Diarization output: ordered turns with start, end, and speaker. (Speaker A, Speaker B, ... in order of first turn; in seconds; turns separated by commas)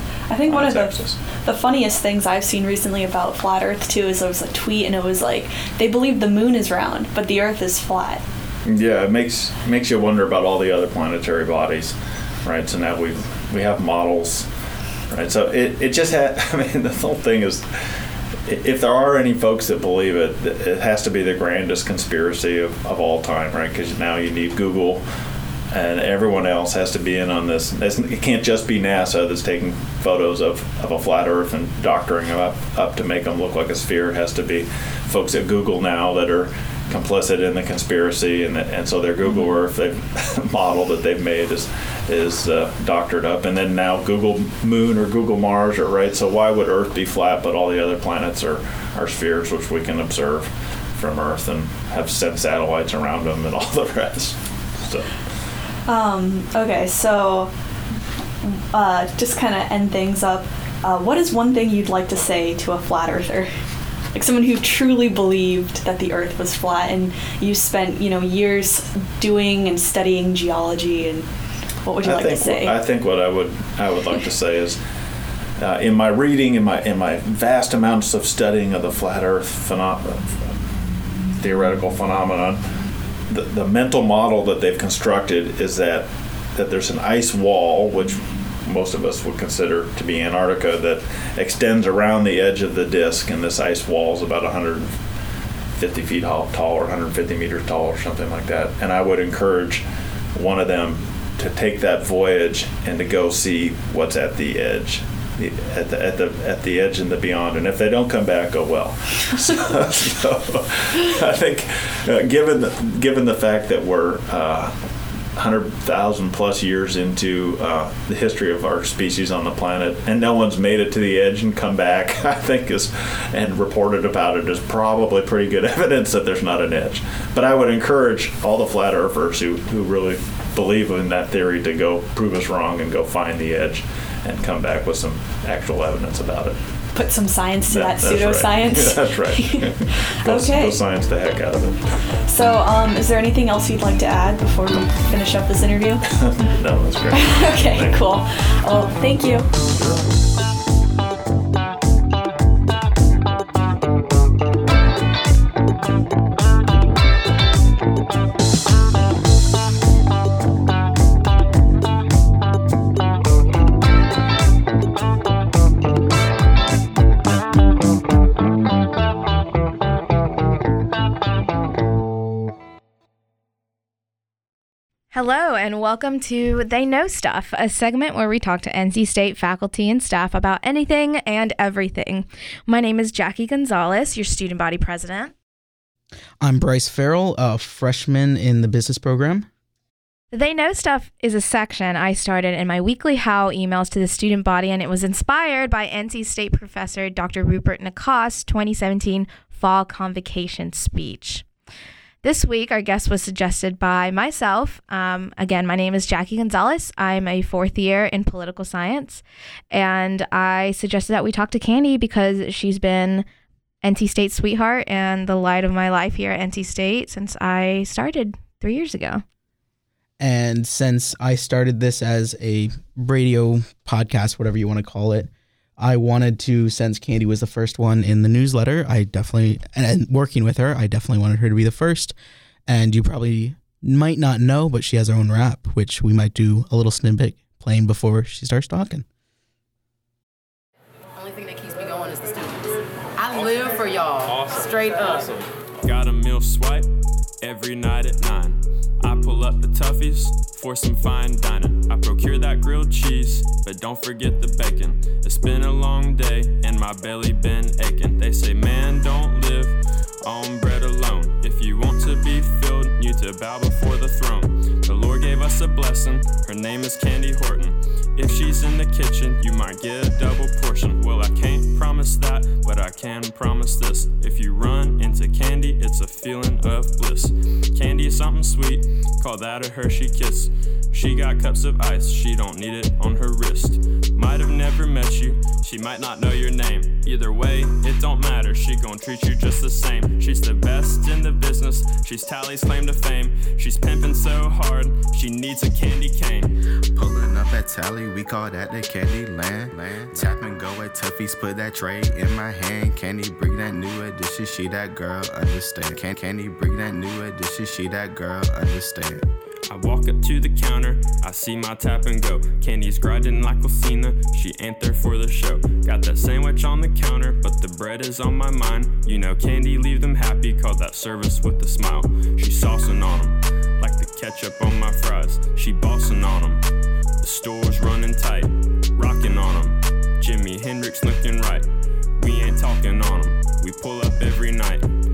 Speaker A: 0.3-8.2, Speaker B: 0.5-1.2, Speaker B: 8.6-14.5, Speaker B: 15.1-17.6, Speaker B: 18.5-25.0, Speaker B: 25.7-55.1, Speaker A: 39.2-39.5, Speaker A: 55.9-57.5, Speaker A: 58.4-63.5, Speaker A: 64.1-71.2, Speaker A: 71.8-72.7, Speaker B: 72.0-74.8, Speaker B: 75.6-80.6, Speaker B: 81.4-82.6, Speaker B: 83.3-95.0, Speaker B: 95.8-99.8, Speaker B: 100.3-114.7, Speaker B: 115.3-136.6, Speaker A: 136.9-140.8, Speaker B: 137.7-141.8, Speaker A: 142.2-146.0, Speaker B: 146.1-148.2, Speaker A: 147.1-149.5, Speaker B: 149.6-150.1, Speaker C: 175.1-185.3, Speaker D: 186.4-189.5, Speaker C: 190.3-201.4, Speaker C: 202.2-213.2, Speaker C: 213.8-219.2, Speaker D: 220.2-239.1, Speaker E: 241.1-245.3, Speaker F: 244.3-244.7, Speaker F: 245.8-246.8, Speaker F: 247.4-296.5, Speaker G: 296.9-309.2, Speaker F: 309.7-326.6, Speaker F: 327.2-331.6, Speaker F: 332.2-334.9